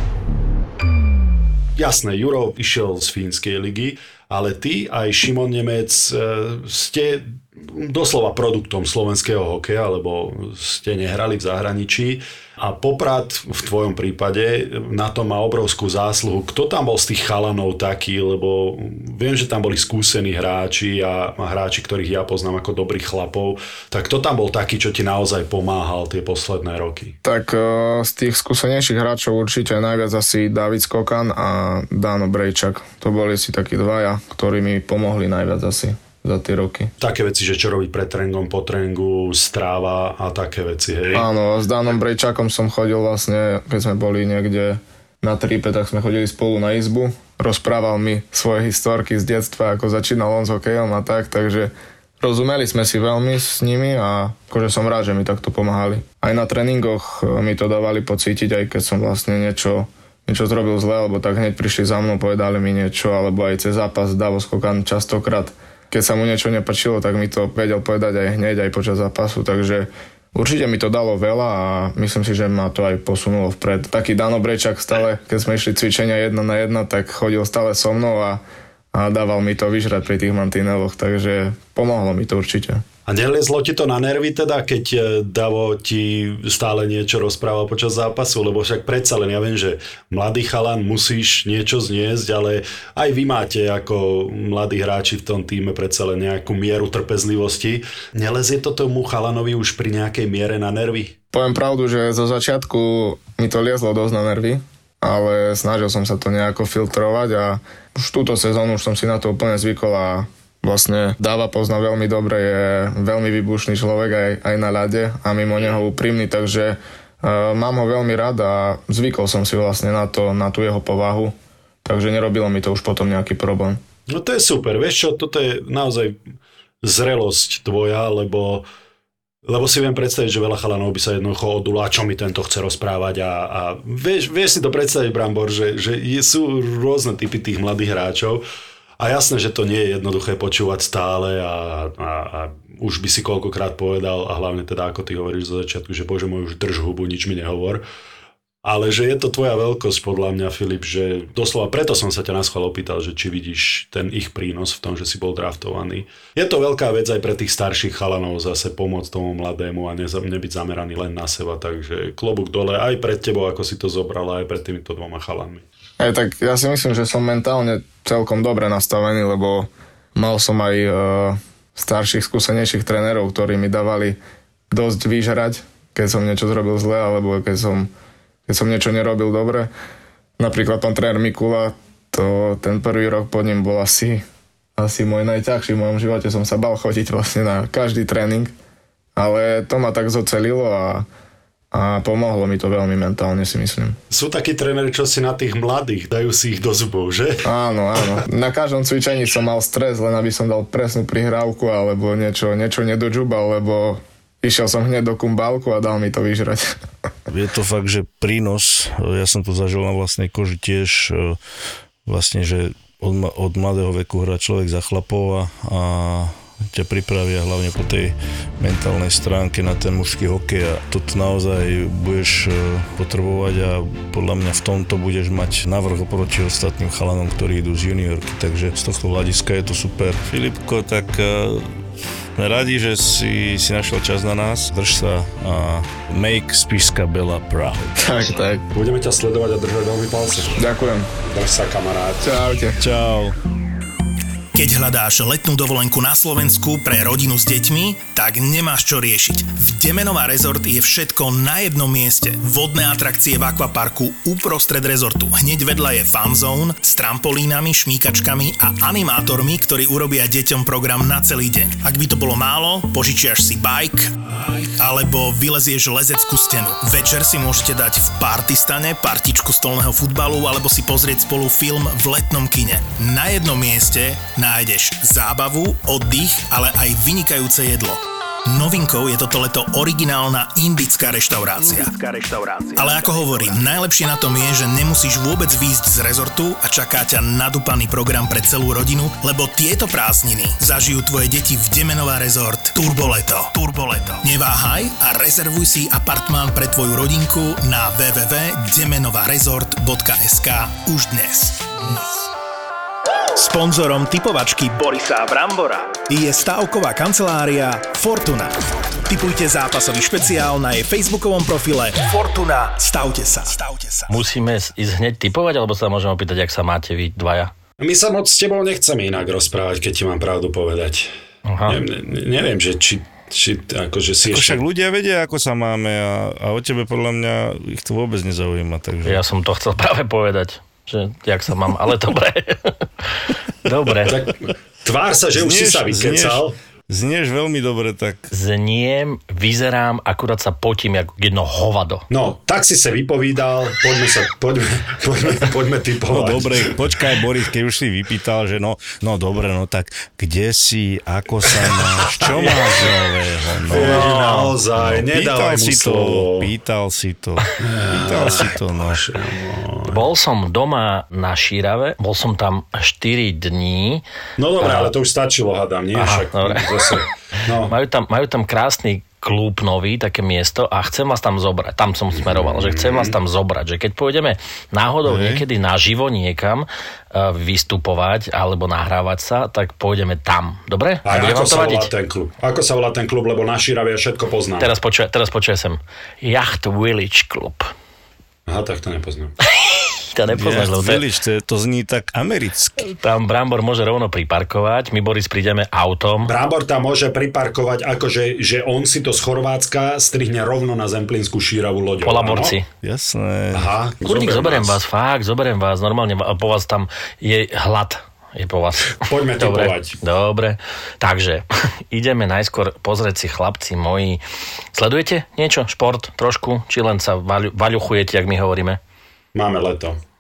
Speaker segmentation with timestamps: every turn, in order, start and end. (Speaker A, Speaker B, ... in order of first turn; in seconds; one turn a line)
Speaker A: 1.8-27.2
Speaker B: 27.2-36.9
Speaker A: 37.0-41.3
Speaker B: 41.1-82.8
Speaker A: 83.1-101.1
Speaker B: 101.3-123.8
Speaker A: 124.1-126.2
Speaker A: 126.8-128.7
Speaker A: 129.5-138.4
Speaker A: 139.0-147.8
Speaker A: 148.6-165.7
Speaker B: 166.0-174.2
Speaker B: 174.7-177.9
Speaker B: 178.5-179.7
Speaker B: 180.4-184.2
Speaker B: 184.8-188.5
Speaker B: 189.2-191.1
Speaker B: 191.7-194.0
Speaker A: 194.1-197.4
Speaker B: 197.4-206.7
Speaker C: 207.3-211.4
Speaker C: 212.1-231.8
Speaker C: 232.3-238.0
Speaker B: 238.0-238.6
Speaker A: 238.7-240.6
Speaker B: 240.6-241.1
Speaker A: 241.2-242.3
Speaker B: 242.2-242.8
Speaker C: 242.8-243.4
Speaker D: 244.5-301.7
Speaker D: 303.4-314.2
Speaker E: 314.1-317.5
Speaker A: 317.8-321.1
Speaker E: 321.5-321.8
Speaker A: 321.7-324.6
Speaker C: 324.3-329.2
Speaker E: 329.1-332.8
Speaker E: 333.6-334.2
Speaker A: 334.1-336.6
Speaker C: 335.4-338.3
Speaker E: 338.3-342.1
Speaker A: 342.1-347.0
Speaker C: 346.1-359.0
Speaker A: 352.2-352.9
Speaker A: 353.7-356.5
Speaker A: 357.6-360.1
Speaker E: 359.9-364.1
Speaker A: 364.4-367.7
Speaker E: 364.6-364.9
Speaker E: 365.9-367.0
Speaker E: 367.6-381.9
Speaker A: 372.1-373.2
Speaker C: 375.1-375.4
Speaker A: 381.1-384.7
Speaker E: 384.6-387.7
Speaker A: 388.5-389.3
Speaker E: 390.1-391.1
Speaker C: 390.3-392.9
Speaker E: 392.8-396.4
Speaker A: 396.3-402.6
Speaker E: 402.0-402.7
Speaker C: 402.8-403.7
Speaker A: 403.5-404.8
Speaker E: 404.0-414.2
Speaker A: 409.0-410.0
Speaker E: 414.7-418.8
Speaker A: 419.4-420.0